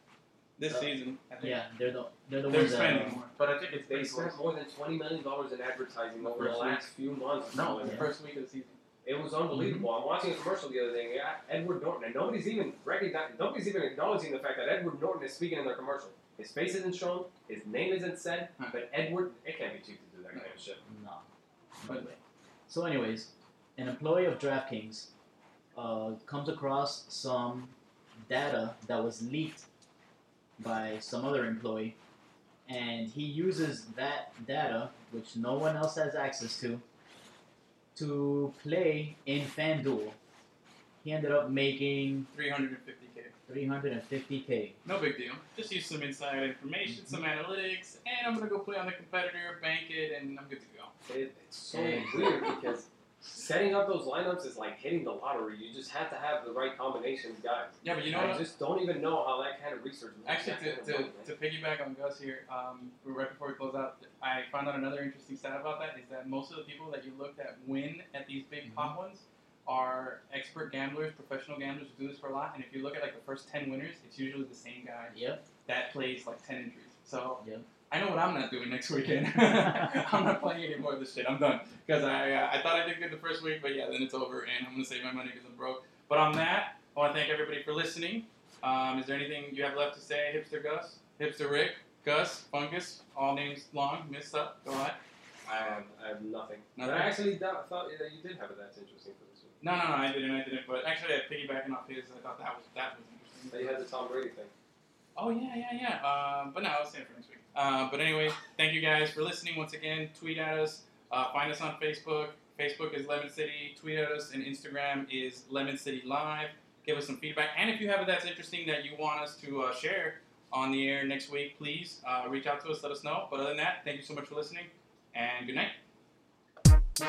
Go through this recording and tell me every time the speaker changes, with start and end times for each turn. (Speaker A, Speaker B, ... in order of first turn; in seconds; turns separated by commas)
Speaker A: 0.6-1.6, Speaker B: 1.4-3.2, Speaker A: 2.5-4.4, Speaker C: 3.9-8.1, Speaker A: 6.2-6.8, Speaker B: 6.4-6.6, Speaker A: 7.5-8.8, Speaker B: 7.8-8.1, Speaker C: 9.0-20.8, Speaker A: 9.5-9.8, Speaker B: 20.9-21.2, Speaker B: 21.8-25.1, Speaker B: 25.7-27.7, Speaker B: 28.2-29.6, Speaker B: 30.6-31.9, Speaker B: 32.6-36.8, Speaker B: 37.9-40.2, Speaker B: 41.0-42.3, Speaker A: 42.3-43.3, Speaker B: 43.5-44.8, Speaker A: 44.8-50.9, Speaker B: 46.9-47.2, Speaker C: 51.0-61.3, Speaker B: 51.7-52.5, Speaker A: 57.8-58.4, Speaker A: 60.2-75.1, Speaker B: 68.7-68.9, Speaker B: 75.1-75.4, Speaker A: 75.7-95.0, Speaker B: 77.4-77.6, Speaker B: 79.3-80.0, Speaker C: 95.5-99.6, Speaker A: 96.8-97.2, Speaker A: 99.6-103.8, Speaker C: 103.5-104.5, Speaker A: 105.2-125.8